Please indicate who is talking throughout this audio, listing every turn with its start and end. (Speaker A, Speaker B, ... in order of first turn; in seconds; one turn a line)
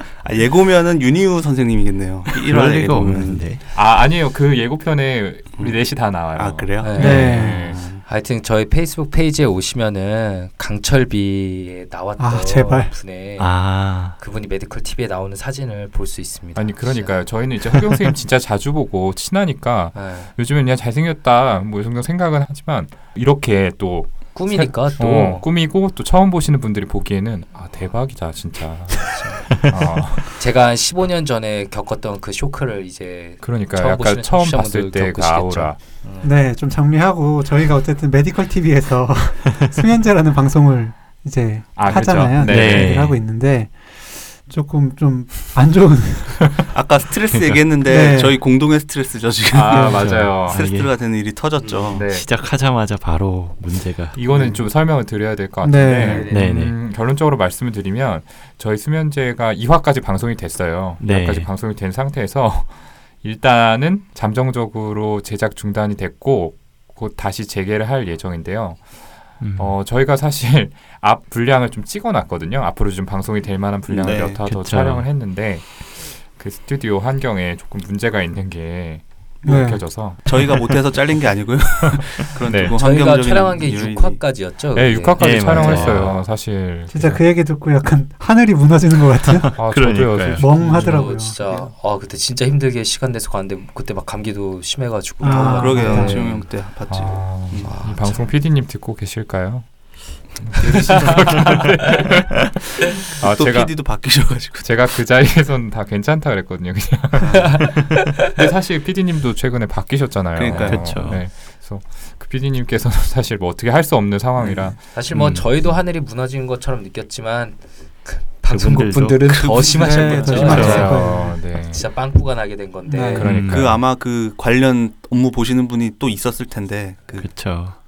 Speaker A: 0.2-3.4
Speaker B: 2.3-3.6
Speaker C: 3.7-7.8
Speaker A: 6.3-8.0
Speaker D: 6.8-7.5
Speaker E: 7.0-7.7
Speaker D: 8.1-13.5
Speaker E: 12.2-12.9
Speaker B: 13.4-14.1
Speaker D: 14.2-17.2
Speaker C: 16.5-30.3
Speaker D: 19.9-20.3
Speaker D: 24.3-25.5
Speaker D: 29.0-29.6
Speaker D: 30.2-36.3
Speaker C: 33.4-35.8
Speaker E: 36.2-46.5
Speaker C: 41.8-43.1
Speaker B: 42.5-43.2
Speaker A: 46.7-52.0
Speaker E: 47.8-48.4
Speaker C: 49.5-50.6
Speaker B: 49.8-50.9
Speaker D: 51.6-52.0
Speaker C: 51.6-52.3
Speaker B: 52.0-54.2
Speaker C: 54.1-68.9
Speaker A: 54.3-54.6
Speaker E: 55.6-56.2
Speaker D: 56.0-56.5
Speaker A: 56.0-56.3
Speaker B: 56.3-56.8
Speaker B: 61.0-61.5
Speaker B: 69.4-69.7
Speaker C: 69.5-80.5
Speaker A: 73.9-74.4
Speaker B: 74.4-75.1
Speaker E: 79.5-79.9
Speaker A: 80.2-84.2
Speaker C: 82.0-82.8
Speaker D: 82.7-85.9
Speaker C: 84.7-87.2
Speaker B: 85.2-86.2
Speaker E: 86.9-89.5
Speaker B: 89.4-90.5
Speaker C: 89.5-90.9
Speaker E: 90.3-91.3
Speaker D: 90.6-96.5
Speaker A: 91.0-91.7
Speaker E: 95.2-96.2
Speaker A: 95.2-97.9
Speaker C: 96.8-99.7
Speaker D: 97.6-98.3
Speaker C: 100.4-114.8
Speaker A: 100.8-101.2
Speaker D: 100.8-101.6
Speaker A: 103.2-104.9
Speaker A: 107.2-107.6
Speaker D: 107.3-108.2
Speaker A: 110.3-110.9
Speaker B: 110.5-111.2
Speaker A: 114.4-114.7
Speaker D: 114.9-123.3
Speaker B: 115.1-115.5
Speaker B: 118.5-119.2
Speaker A: 119.2-120.8
Speaker E: 119.8-121.4
Speaker B: 120.3-121.1
Speaker C: 120.5-121.8
Speaker E: 122.9-123.3
Speaker B: 123.1-123.8
Speaker C: 123.2-123.8
Speaker A: 123.4-127.3
Speaker B: 127.2-127.8